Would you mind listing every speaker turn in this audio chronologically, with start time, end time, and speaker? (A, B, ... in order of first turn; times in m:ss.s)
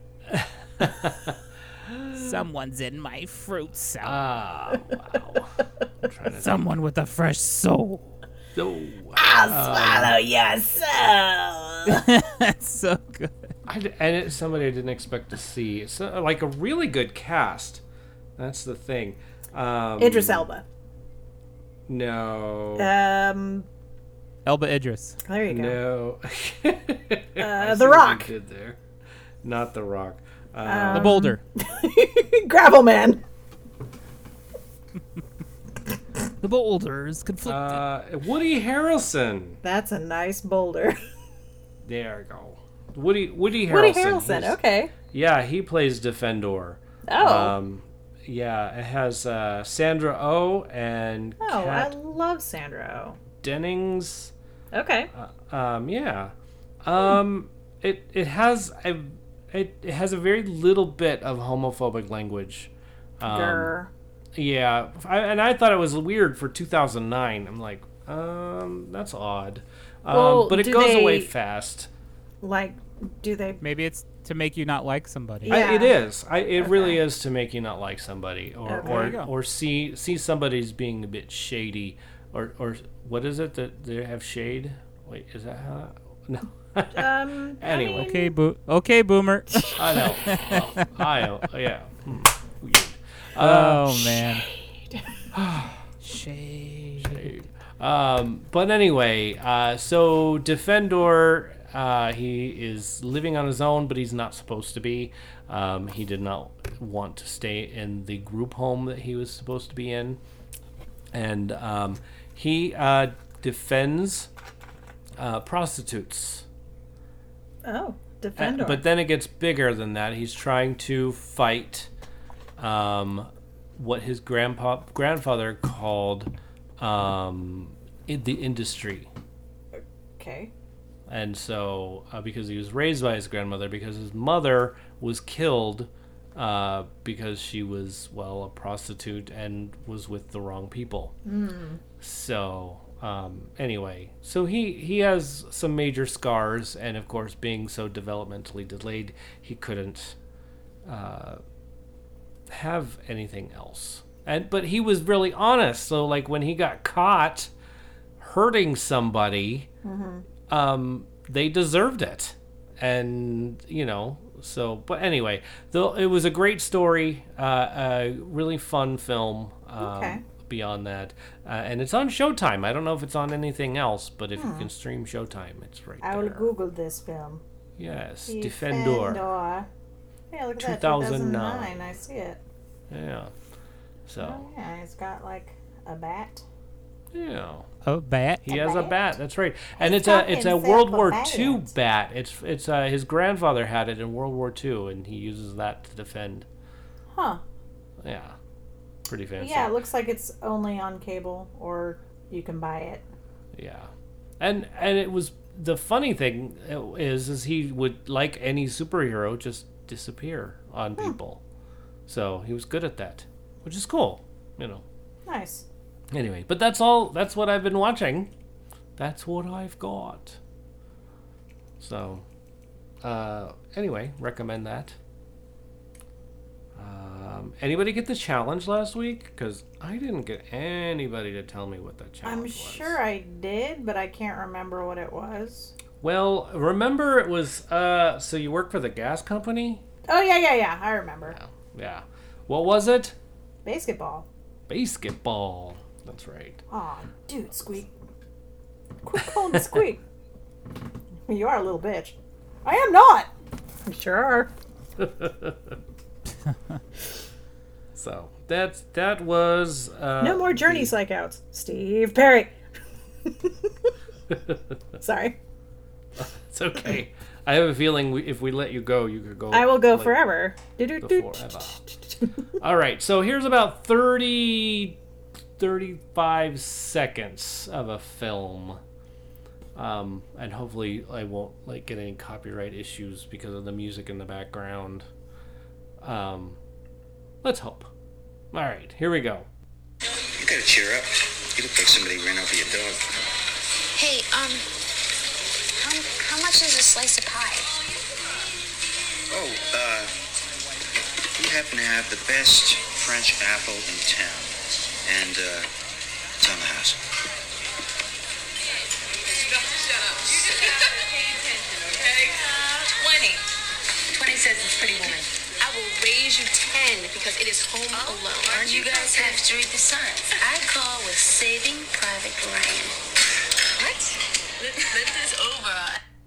0:00.3-0:02.4 A
0:02.1-0:04.2 B
0:04.0-0:06.6 A
0:06.3-0:08.1 B
0:08.6-0:10.1 A
0:09.2-0:12.0 C
0:11.9-0:13.5 B
0:13.6-0:17.8 A
0:18.4-0:20.5 A
0:20.0-0:20.6 C
0:21.9-0:22.9 A
0:22.8-0:23.7 C
0:24.4-0:25.2 B
0:25.2-0:25.8 C
0:25.5-0:28.8 A
0:27.4-0:28.3 C
0:29.4-0:31.2 A
0:30.6-0:33.2 C
0:30.9-0:31.4 B
0:36.4-0:37.8 B
0:37.4-0:39.6 A
0:39.6-0:41.0 C
0:41.8-0:44.6 A
0:43.7-0:44.9 C
0:45.1-0:51.9 A
0:47.1-0:47.5 C
0:51.4-0:53.2 C
0:53.4-0:54.3 A
0:54.7-0:55.1 C
0:55.1-1:03.7 A
1:03.2-1:03.9 C
1:04.4-1:11.9 A
1:10.1-1:11.3 C
1:12.4-1:13.6 C
1:13.6-1:15.6 B
1:15.4-1:16.0 C
1:15.4-1:27.1 A
1:16.6-1:17.0 C
1:18.6-1:19.2 C
1:18.8-1:19.3 B
1:26.9-1:28.4 C
1:27.6-1:28.1 A
1:27.9-1:30.6 B
1:29.5-1:30.5 C
1:29.7-1:34.0 A
1:33.4-1:34.4 B
1:33.9-1:35.1 C
1:35.3-1:35.8 A
1:36.0-1:37.3 B
1:37.0-1:50.2 A
1:51.1-1:54.3 A
1:55.2-1:56.4 A
1:57.6-1:58.8 C
1:58.4-2:01.9 A
2:02.6-2:09.1 A
2:09.7-2:10.5 C
2:11.1-2:21.1 A
2:21.2-2:21.8 C
2:22.0-2:30.2 A
2:30.8-2:31.4 A
2:32.5-2:37.5 A
2:38.2-2:39.7 A
2:39.8-2:40.2 C
2:40.5-2:56.5 A
2:49.8-2:50.2 C
2:54.4-2:54.7 C
2:56.0-2:57.4 C
2:57.8-2:59.2 A
2:58.3-2:59.7 C
3:00.3-3:02.4 C
3:00.6-3:01.9 A
3:02.9-3:03.3 A
3:04.1-3:04.4 A
3:04.2-3:06.4 C
3:07.1-3:07.7 A
3:07.8-3:08.5 B
3:08.4-3:16.4 A
3:08.5-3:09.0 C
3:09.8-3:11.7 C
3:17.1-3:17.4 C
3:18.0-3:18.3 A
3:19.0-3:19.7 A
3:19.4-3:23.0 C
3:23.5-3:31.4 A
3:32.1-3:34.8 A
3:35.2-3:35.6 C
3:36.1-3:38.3 A
3:39.0-3:40.4 A
3:41.8-3:42.2 A
3:43.0-3:45.0 A
3:46.8-3:53.0 A
3:52.2-3:55.7 C
3:56.0-3:59.8 A
4:00.1-4:01.4 C
4:01.3-4:03.1 A
4:03.6-4:04.3 C
4:04.7-4:06.6 A
4:06.7-4:07.9 C
4:09.0-4:10.0 C
4:09.5-4:09.8 A
4:11.3-4:13.3 C
4:13.8-4:14.5 C
4:15.0-4:15.7 A
4:17.9-4:20.9 A
4:20.2-4:22.5 C
4:23.2-4:23.7 C
4:25.0-4:25.4 C
4:26.2-4:30.2 A
4:29.5-4:32.3 C
4:31.0-4:31.8 A
4:32.6-4:35.0 A
4:35.6-4:38.8 A
4:39.7-4:45.0 A
4:46.0-4:46.6 A
4:47.4-4:47.9 A
4:48.5-4:49.5 A
4:50.4-4:53.1 D
4:54.0-4:54.6 E
4:55.8-4:57.8 E
4:59.3-5:00.1 D
5:01.3-5:05.7 D
5:06.4-5:07.0 D
5:09.7-5:13.4 E
5:14.1-5:23.0 E
5:23.8-5:26.0 E